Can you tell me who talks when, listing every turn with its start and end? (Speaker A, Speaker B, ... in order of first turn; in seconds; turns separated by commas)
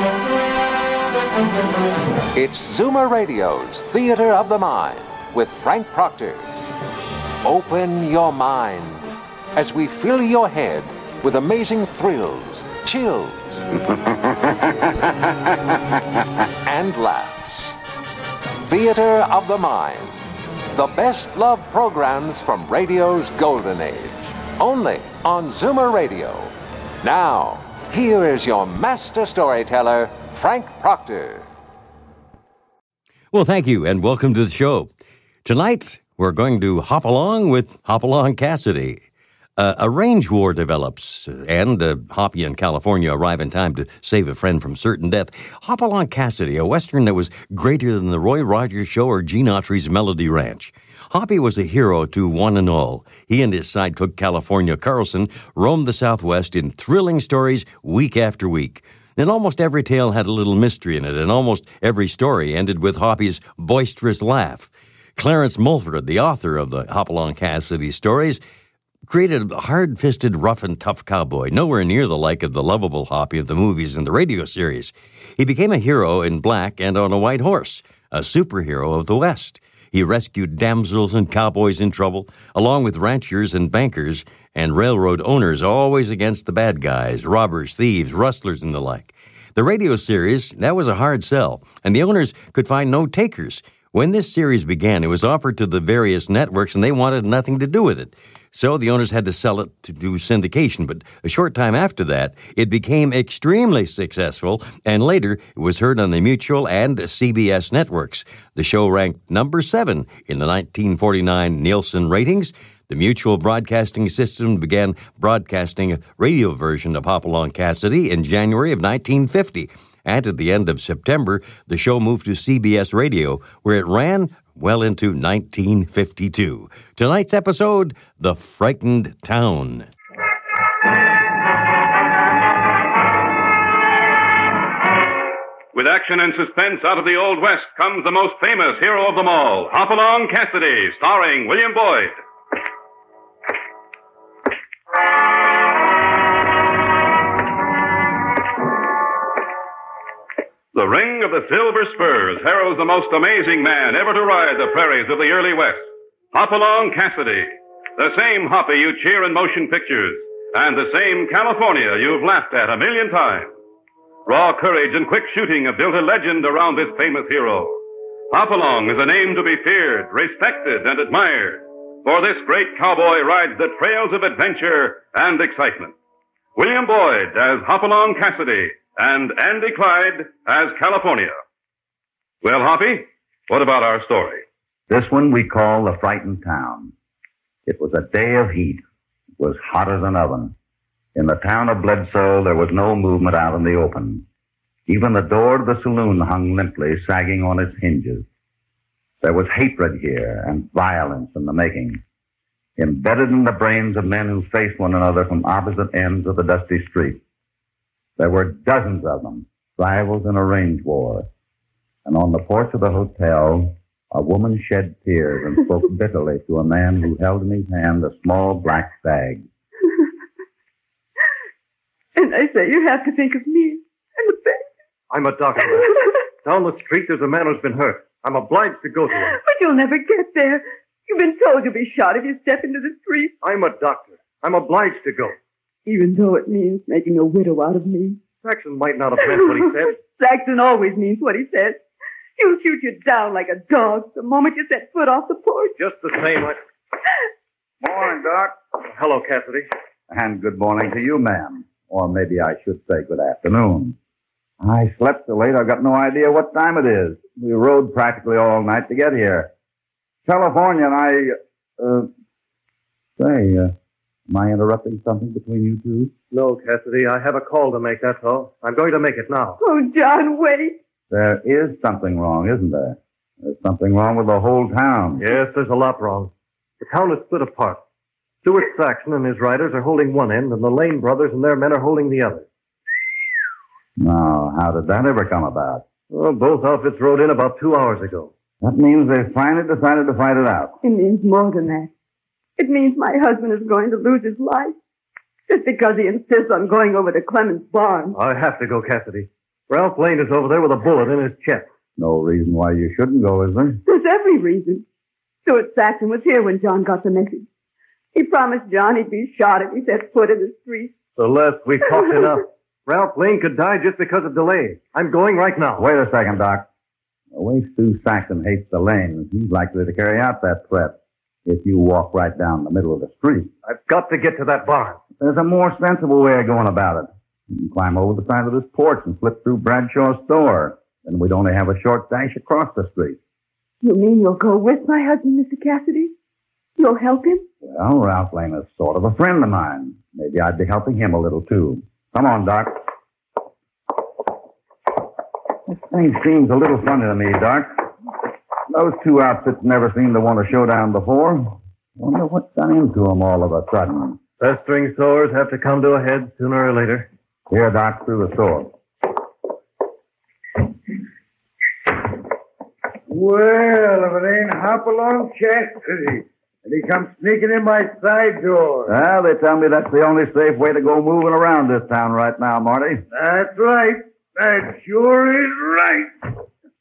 Speaker A: 2.3-6.5, Speaker A: 7.4-13.7, Speaker A: 16.6-17.8, Speaker A: 18.6-20.1, Speaker A: 20.7-31.5, Speaker B: 33.3-39.0, Speaker B: 39.6-68.4, Speaker B: 69.0-129.9, Speaker C: 135.7-142.2, Speaker C: 150.7-163.5, Speaker C: 164.2-167.8, Speaker C: 168.3-175.9, Speaker C: 176.5-181.4, Speaker C: 182.4-184.4, Speaker D: 184.9-186.9, Speaker D: 187.7-188.8, Speaker D: 189.4-190.5, Speaker D: 191.1-194.2, Speaker D: 194.9-198.3, Speaker D: 199.2-202.0, Speaker D: 202.8-207.2, Speaker D: 208.2-211.3, Speaker D: 212.0-219.5, Speaker E: 222.2-224.7, Speaker F: 225.1-229.4, Speaker E: 229.3-233.3, Speaker F: 233.4-235.3, Speaker E: 235.8-238.2, Speaker F: 238.4-239.9, Speaker E: 239.2-241.8, Speaker E: 242.4-245.7, Speaker F: 245.8-246.6, Speaker D: 247.8-248.6, Speaker F: 248.9-249.7, Speaker D: 250.1-253.9, Speaker D: 254.6-259.5, Speaker D: 260.2-262.1, Speaker D: 263.2-263.7, Speaker D: 264.3-266.1, Speaker F: 266.3-269.6, Speaker E: 269.6-270.8, Speaker D: 271.1-275.2, Speaker F: 275.2-277.8, Speaker F: 278.4-282.5, Speaker D: 284.0-285.8, Speaker F: 286.1-288.3, Speaker D: 288.6-290.8, Speaker E: 290.8-291.9, Speaker E: 292.6-294.8, Speaker E: 295.5-298.2, Speaker F: 298.1-301.7, Speaker D: 302.0-303.8, Speaker E: 303.9-304.8, Speaker E: 305.4-307.5, Speaker E: 308.1-310.9, Speaker F: 311.2-315.9, Speaker E: 311.9-312.3, Speaker D: 315.8-316.7, Speaker D: 317.3-323.5, Speaker F: 323.7-325.0, Speaker D: 325.2-333.2, Speaker E: 333.8-336.1, Speaker E: 336.8-337.4, Speaker D: 337.6-342.8, Speaker D: 345.7-347.9, Speaker D: 348.7-354.2, Speaker F: 354.4-357.1, Speaker D: 357.5-358.7, Speaker G: 363.1-368.9, Speaker D: 368.9-373.0, Speaker G: 373.1-376.3